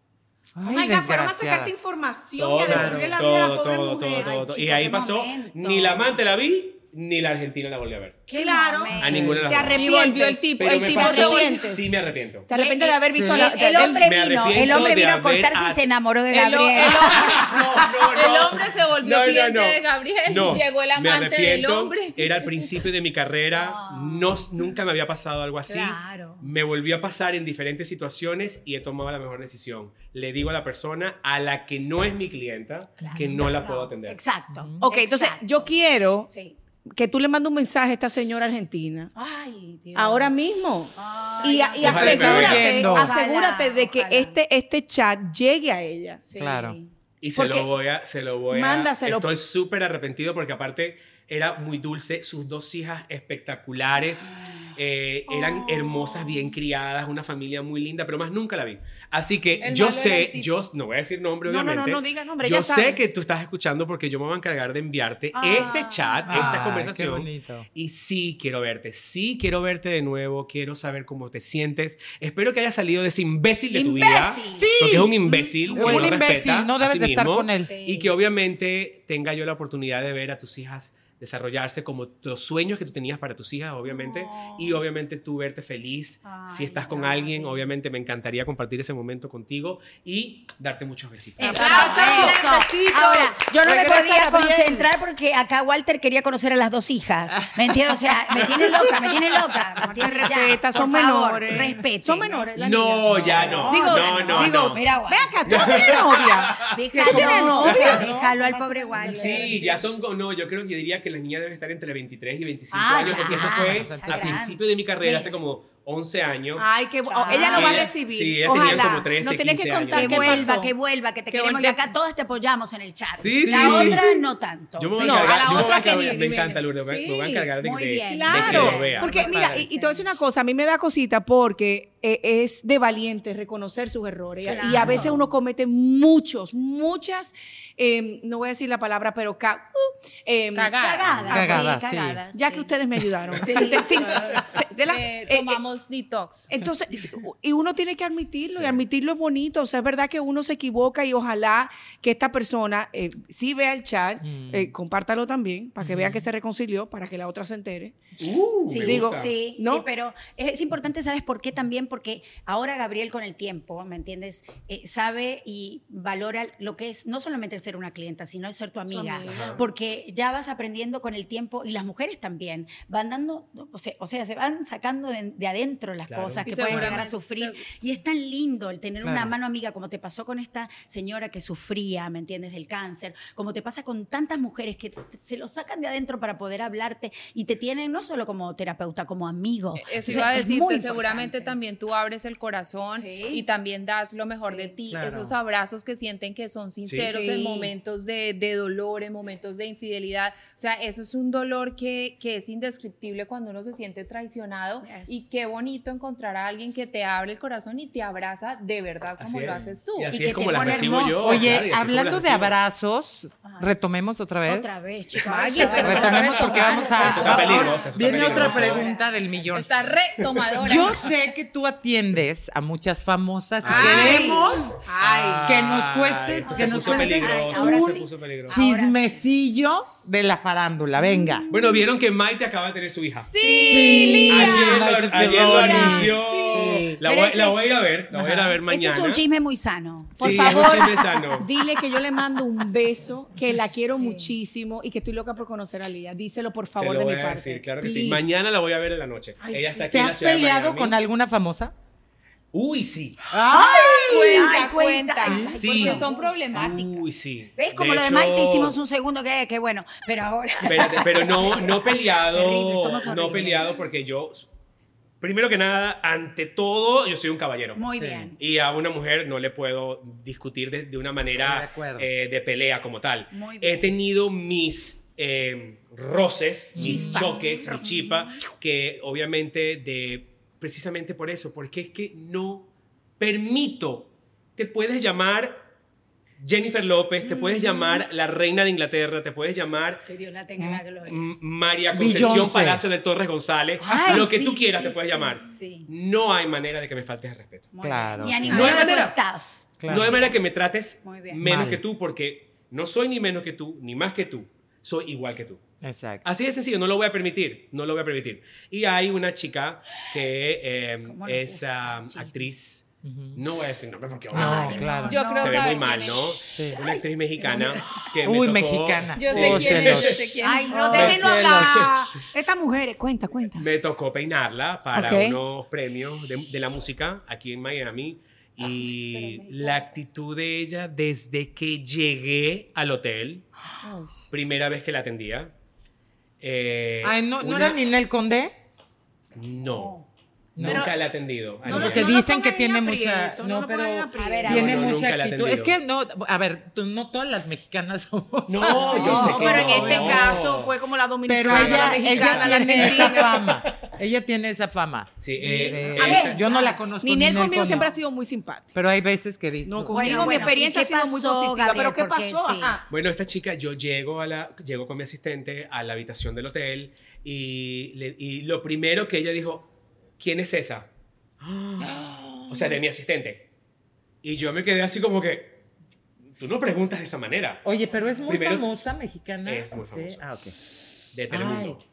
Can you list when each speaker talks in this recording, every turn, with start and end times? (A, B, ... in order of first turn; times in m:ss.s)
0:00.6-0:01.7 A
0:00.7-0:04.4 B
0:02.4-0:08.2 C
0:02.6-0:03.2 A
0:04.2-0:06.2 D
0:08.3-0:09.4 D
0:08.3-0:11.9 B
0:09.0-0:09.7 A
0:09.0-0:09.9 C
0:09.8-0:11.6 E
0:10.6-0:12.5 C
0:12.5-0:14.2 B
0:12.5-0:17.6 D
0:13.1-0:13.5 A
0:13.8-0:15.8 C
0:16.3-0:22.7 E
0:17.0-0:34.2 C
0:23.5-0:24.4 D
0:25.7-0:26.5 D
0:33.0-0:35.7 D
0:34.5-0:34.8 A
0:34.8-0:36.3 B
0:36.3-0:36.6 D
0:36.9-0:39.1 B
0:39.2-0:40.3 D
0:40.0-0:46.3 B
0:41.0-0:44.4 D
0:41.8-0:42.7 C
0:41.8-0:43.2 A
0:46.3-0:46.9 D
0:46.4-0:46.8 A
0:47.2-1:32.1 C
0:47.4-0:47.7 B
0:48.5-0:49.3 B
0:54.2-0:54.7 D
0:55.3-0:56.6 D
0:59.6-1:00.5 E
1:01.4-1:03.0 B
1:05.4-1:06.6 D
1:06.3-1:07.7 A
1:13.7-1:14.7 D
1:14.5-1:17.7 A
1:15.3-1:16.2 D
1:17.7-1:18.1 D
1:23.9-1:24.8 D
1:26.2-1:27.7 D
1:31.4-1:42.5 D
1:31.4-1:34.9 A
1:31.5-1:32.3 B
1:38.4-1:39.2 C
1:39.8-1:48.0 B
1:42.6-1:44.8 C
1:43.1-1:44.4 A
1:43.4-1:46.0 D
1:45.4-1:48.0 C
1:46.6-1:49.7 D
1:47.0-1:49.8 A
1:49.1-1:56.7 C
1:52.7-1:55.4 D
1:52.9-1:54.5 A
1:56.6-2:00.7 B
1:57.1-1:57.9 D
1:57.5-2:00.5 C
1:59.9-2:05.9 D
2:01.3-2:01.8 E
2:03.2-2:04.0 C
2:03.4-2:04.2 B
2:04.8-2:09.6 C
2:05.0-2:21.7 B
2:07.6-2:10.1 D
2:14.4-2:15.0 C
2:14.5-2:15.2 D
2:14.8-2:15.1 A
2:20.5-2:21.0 E
2:20.8-2:22.7 D
2:21.0-2:21.4 C
2:21.3-2:22.2 A
2:22.3-2:25.6 B
2:23.4-2:24.5 D
2:24.9-2:26.5 E
2:26.5-2:38.0 B
2:28.5-2:28.8 C
2:34.2-2:34.7 A
2:35.8-2:36.3 A
2:38.2-2:39.3 C
2:38.7-3:11.6 D
2:38.8-2:39.8 B
2:48.9-2:49.7 B
2:49.2-2:49.6 C
2:56.1-2:57.1 C
2:56.4-2:57.7 E
2:59.0-2:59.3 A
3:09.8-3:30.1 E
3:10.0-3:10.4 C
3:13.0-3:13.4 D
3:14.4-3:14.8 D
3:14.9-3:15.3 A
3:16.8-3:17.2 C
3:17.0-3:17.7 D
3:24.8-3:25.5 D
3:29.2-3:32.6 C
3:30.1-3:31.6 D
3:31.2-3:34.8 A
3:34.5-3:39.2 D
3:35.2-3:37.7 E
3:35.7-3:39.8 A
3:35.8-3:38.9 C
3:37.3-3:37.7 B
3:39.5-3:41.1 E
3:40.6-3:44.8 A
3:43.6-3:44.3 C
3:43.7-3:45.5 B
3:43.8-3:44.6 D
3:45.0-3:48.6 C
3:45.4-3:47.8 A
3:46.4-3:49.2 D
3:46.9-3:48.0 B
3:48.5-3:51.5 A
3:51.0-3:51.9 D
3:51.5-3:53.3 C
3:53.3-3:54.8 B
3:53.4-3:54.8 D
3:53.7-3:57.0 A
3:54.3-3:59.2 C
3:55.4-3:56.2 D
3:56.2-3:56.9 B
3:57.0-3:57.6 D
3:58.1-3:58.6 A
3:58.7-4:00.9 D
4:00.2-4:01.5 C
4:00.2-4:08.3 B
4:06.8-4:11.0 C
4:09.4-4:09.8 B
4:09.9-4:11.7 A
4:12.5-4:13.2 C
4:13.3-4:14.5 A
4:13.5-4:16.1 D
4:13.9-4:17.0 E
4:15.3-4:15.6 A
4:15.5-4:18.8 C
4:17.6-4:23.8 D
4:20.6-4:24.5 C
4:25.2-4:27.8 C
4:27.8-4:28.4 D
4:28.0-4:28.3 A
4:28.4-4:42.7 C
4:31.4-4:32.1 A
4:33.3-4:33.9 D
4:36.8-4:37.4 A
4:36.8-4:38.4 D
4:36.9-4:37.2 B
4:43.2-4:45.6 C
4:46.4-4:50.1 C
4:47.2-4:48.0 D
4:50.1-4:51.3 D
4:51.0-4:59.2 C
4:51.9-4:52.8 A
4:53.8-4:55.9 D
4:57.7-5:00.4 D
4:57.8-4:58.7 A
4:58.5-4:58.8 B
4:59.8-5:00.2 A
4:59.9-5:05.6 C
5:01.0-5:01.4 D
5:01.4-5:01.8 A
5:05.8-5:06.2 A
5:06.2-5:12.8 C
5:11.0-5:12.3 D
5:13.0-5:13.4 A
5:13.4-5:20.4 C
5:14.3-5:15.2 A
5:14.3-5:17.8 D
5:15.0-5:16.4 E
5:16.5-5:16.8 A
5:18.2-5:20.2 A
5:19.2-5:21.0 E
5:20.4-5:21.7 D
5:20.7-5:23.7 B
5:20.9-5:21.9 A
5:20.9-5:22.1 C
5:23.6-5:33.5 C
5:24.9-5:25.4 B
5:29.1-5:29.8 D
5:34.3-5:35.5 C
5:36.4-5:37.8 C
5:37.0-5:38.6 A
5:39.3-5:40.0 C
5:39.7-5:40.0 D
5:40.6-5:40.9 A
5:40.6-5:42.2 C
5:40.6-5:41.0 B
5:41.6-5:44.8 B
5:41.6-5:50.4 A
5:44.1-5:45.0 D
5:44.4-5:45.8 C
5:48.5-5:50.8 C
5:48.8-5:49.5 D
5:48.8-5:53.5 B
5:51.3-5:57.9 A
5:51.5-5:53.2 C
5:55.2-5:56.5 C
5:55.4-5:56.8 D
5:55.6-5:58.7 B
5:58.7-6:00.5 A
5:59.6-6:02.8 B
5:59.9-6:02.8 D
6:02.9-6:10.9 C
6:11.4-6:12.0 C
6:11.8-6:12.8 A
6:12.5-6:13.5 C
6:14.2-6:15.6 C
6:16.4-6:17.6 C
6:17.6-6:20.6 A
6:18.3-6:18.7 C
6:19.4-6:20.2 C
6:21.1-6:21.8 C
6:21.3-6:21.8 A